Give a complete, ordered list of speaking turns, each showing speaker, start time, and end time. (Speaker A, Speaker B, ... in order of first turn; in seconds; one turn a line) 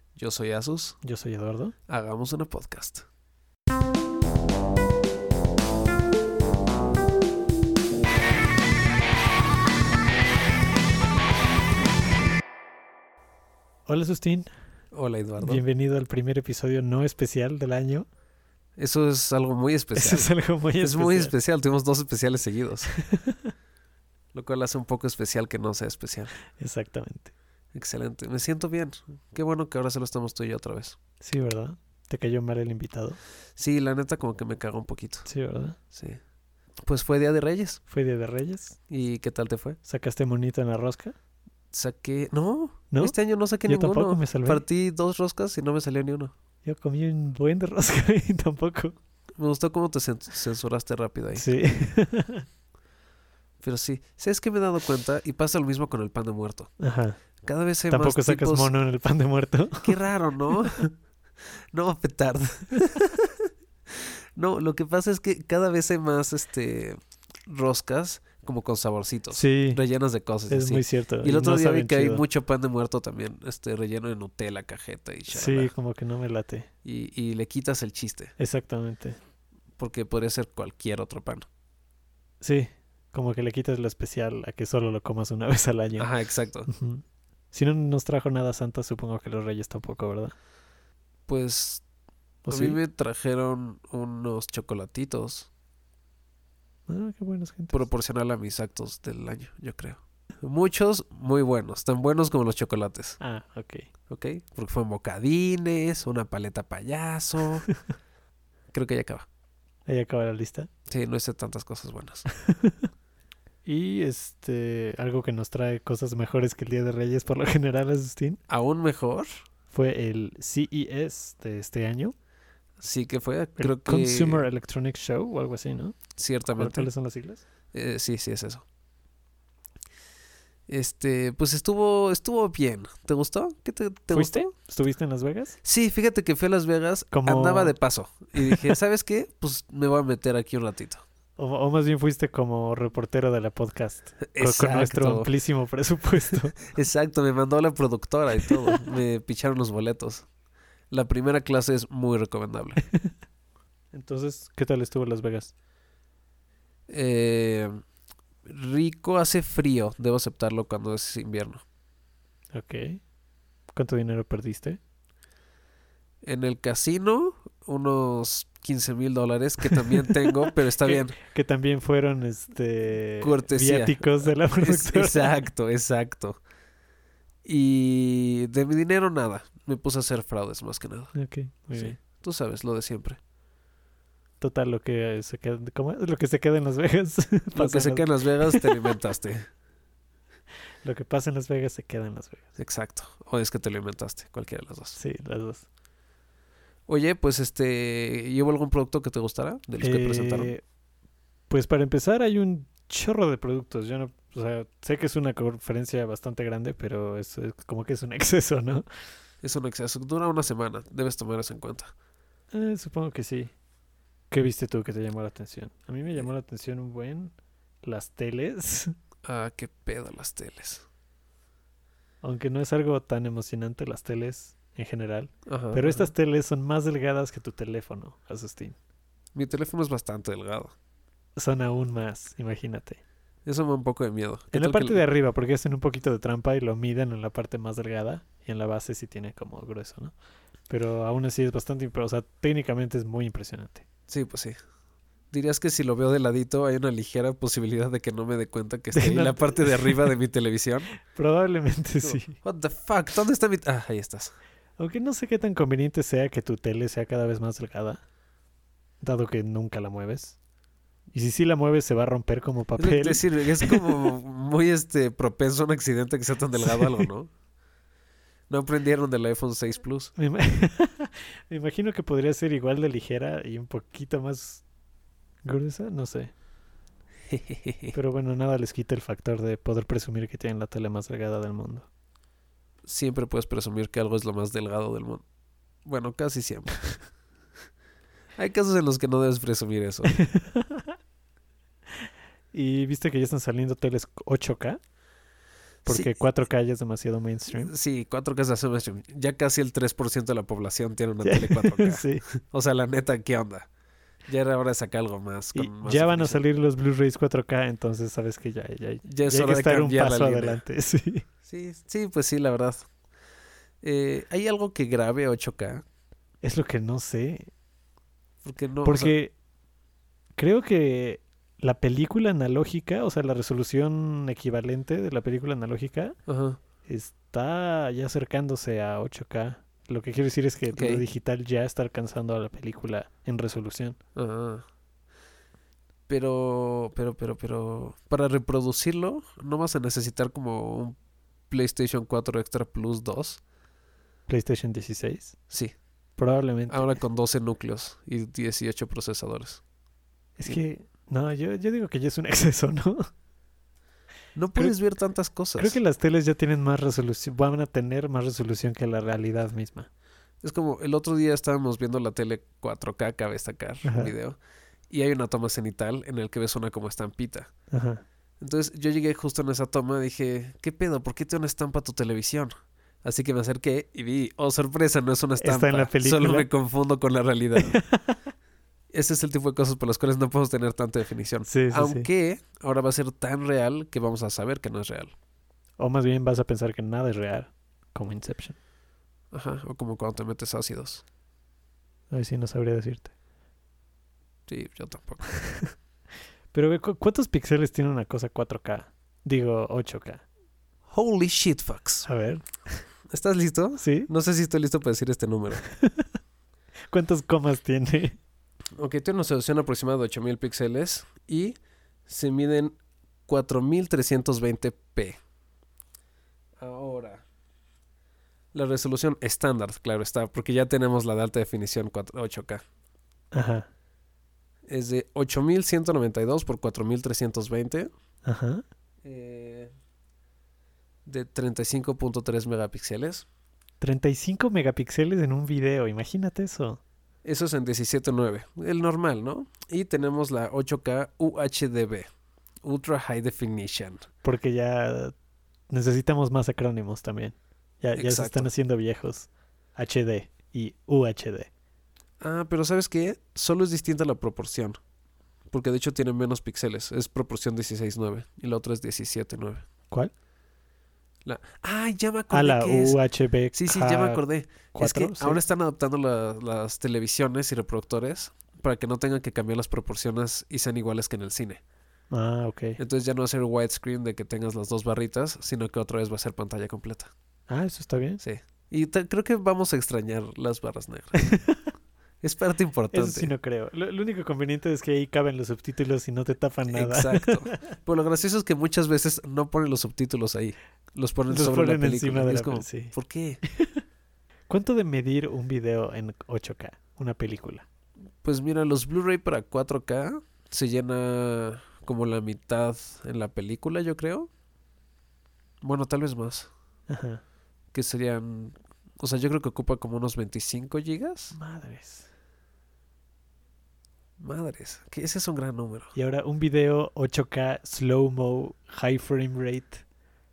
Speaker A: 0.1-1.0
Speaker B: 1.0-1.7
Speaker A: 1.9-3.0
Speaker B: 13.9-14.5
Speaker A: 14.9-15.6
Speaker B: 15.4-18.1
Speaker A: 18.8-22.9
Speaker B: 19.9-21.3
Speaker B: 22.9-23.5
Speaker A: 24.3-26.3
Speaker B: 26.6-27.3
Speaker A: 27.7-31.0
Speaker B: 31.2-33.2
Speaker A: 33.5-35.3
Speaker B: 35.3-35.8
Speaker A: 35.9-36.2
Speaker A: 36.8-37.8
Speaker B: 37.9-38.8
Speaker A: 38.9-39.8
Speaker B: 39.9-41.1
Speaker A: 41.7-46.3
Speaker B: 42.9-43.1
Speaker B: 43.7-44.6
Speaker B: 46.6-49.0
Speaker A: 49.4-51.5
Speaker B: 51.3-52.5
Speaker A: 53.6-56.7
Speaker B: 56.8-57.2
Speaker A: 57.4-58.7
Speaker B: 57.9-60.0
Speaker A: 59.8-60.9
Speaker A: 61.7-75.7
Speaker B: 69.3-69.8
Speaker B: 70.5-72.2
Speaker B: 75.3-76.7
Speaker A: 76.8-78.3
Speaker B: 78.4-79.2
Speaker A: 79.8-81.5
Speaker B: 82.4-86.1
Speaker A: 86.0-86.7
Speaker B: 86.7-90.3
Speaker A: 91.3-91.8
Speaker B: 92.4-92.8
Speaker A: 92.5-95.5
Speaker B: 96.9-97.8
Speaker A: 97.7-103.2
Speaker B: 103.2-103.9
Speaker A: 104.1-107.7
Speaker A: 108.7-109.3
Speaker B: 109.8-110.7
Speaker A: 110.9-112.2
Speaker B: 112.4-112.8
Speaker B: 113.7-118.4
Speaker A: 118.5-119.4
Speaker B: 119.7-122.1
Speaker A: 122.8-124.5
Speaker B: 123.6-126.0
Speaker A: 126.2-126.9
Speaker B: 126.5-127.4
Speaker A: 127.7-128.6
Speaker A: 130.7-134.5
Speaker B: 134.1-135.6
Speaker A: 135.6-141.0
Speaker B: 137.1-137.8
Speaker B: 138.4-138.7
Speaker B: 141.4-146.6
Speaker A: 144.3-145.3
Speaker A: 146.3-150.2
Speaker A: 150.9-152.8
Speaker B: 153.9-155.5
Speaker A: 156.9-157.8
Speaker A: 158.4-161.6
Speaker B: 162.5-163.0
Speaker B: 163.7-164.8
Speaker A: 166.2-171.2
Speaker B: 169.7-175.4
Speaker A: 173.2-176.4
Speaker A: 177.4-181.1
Speaker B: 181.1-182.0
Speaker A: 181.7-183.2
Speaker B: 184.4-188.9
Speaker A: 187.5-189.4
Speaker B: 190.8-192.4
Speaker A: 192.6-195.0
Speaker B: 194.9-195.6
Speaker A: 196.9-200.5
Speaker B: 199.8-200.6
Speaker B: 201.5-208.8
Speaker A: 209.4-211.9
Speaker B: 212.5-213.5
Speaker B: 214.3-218.9
Speaker A: 219.2-220.8
Speaker B: 222.2-228.8
Speaker A: 225.4-226.1
Speaker A: 229.3-230.7
Speaker B: 231.3-233.0
Speaker A: 233.4-235.0
Speaker B: 234.5-240.1
Speaker B: 240.7-243.8
Speaker A: 244.1-244.6
Speaker A: 245.3-250.9
Speaker B: 248.9-250.1
Speaker B: 251.1-252.4
Speaker A: 252.0-254.3
Speaker B: 254.8-258.0
Speaker B: 259.0-260.4
Speaker B: 261.1-264.0
Speaker A: 262.8-267.3
Speaker B: 266.6-267.1
Speaker A: 268.5-270.1
Speaker B: 270.2-274.6
Speaker B: 275.4-276.3
Speaker A: 277.3-277.9
Speaker B: 277.9-281.9
Speaker A: 282.8-285.2
Speaker A: 285.8-286.8
Speaker A: 288.4-290.1
Speaker B: 290.1-290.9
Speaker B: 292.5-294.8
Speaker B: 295.9-297.7
Speaker A: 297.6-303.7
Speaker B: 301.2-302.2
Speaker A: 304.2-306.4
Speaker B: 305.5-311.2
Speaker A: 309.1-310.6
Speaker A: 311.4-312.9
Speaker A: 313.8-315.8
Speaker B: 316.4-317.5
Speaker A: 318.4-319.1
Speaker B: 318.8-319.3
Speaker B: 320.4-326.2
Speaker A: 326.3-326.6
Speaker B: 326.8-334.0
Speaker A: 330.7-331.0
Speaker A: 334.1-334.6
Speaker A: 336.1-340.9
Speaker A: 341.5-343.4
Speaker B: 344.3-345.4
Speaker B: 346.2-346.9
Speaker A: 346.7-349.6
Speaker B: 350.4-353.1
Speaker A: 354.3-355.8
Speaker B: 355.6-359.9
Speaker A: 360.4-364.4
Speaker B: 363.8-364.1
Speaker A: 364.9-367.5
Speaker B: 367.7-368.0
Speaker A: 368.4-377.8
Speaker B: 375.4-376.5
Speaker B: 377.6-378.3
Speaker A: 378.9-385.1
Speaker B: 381.5-382.1
Speaker B: 385.8-388.6
Speaker A: 389.3-391.0
Speaker B: 392.1-393.1
Speaker A: 394.5-395.4
Speaker B: 396.5-400.2
Speaker A: 400.9-402.1
Speaker B: 402.0-402.8
Speaker A: 403.1-405.6
Speaker B: 403.8-404.1
Speaker B: 405.7-406.1
Speaker B: 406.9-408.2
Speaker A: 408.8-411.6
Speaker A: 412.1-415.2
Speaker A: 416.6-417.2
Speaker A: 418.5-422.6
Speaker B: 423.3-423.7
Speaker A: 424.7-427.9
Speaker B: 428.2-428.6
Speaker A: 429.0-429.7
Speaker A: 431.1-433.2
Speaker B: 433.8-436.8
Speaker A: 437.2-442.1
Speaker A: 442.6-444.1
Speaker B: 444.2-445.1
Speaker B: 445.7-451.5
Speaker A: 447.9-448.5
Speaker A: 452.2-454.8
Speaker A: 455.5-459.6
Speaker A: 461.2-463.0
Speaker B: 462.3-464.2
Speaker A: 463.5-471.6
Speaker B: 464.7-465.4
Speaker B: 472.1-472.8
Speaker A: 472.8-477.1
Speaker B: 477.5-478.2
Speaker A: 478.2-481.2
Speaker B: 481.2-481.6
Speaker A: 482.2-483.3
Speaker B: 482.9-487.7
Speaker A: 486.7-493.4
Speaker B: 491.3-492.9
Speaker B: 493.5-493.8
Speaker B: 494.5-497.6
Speaker A: 498.2-504.3
Speaker A: 505.6-506.5
Speaker B: 506.9-507.2
Speaker A: 507.7-511.3
Speaker B: 511.3-512.1
Speaker A: 514.2-515.9
Speaker B: 515.9-519.8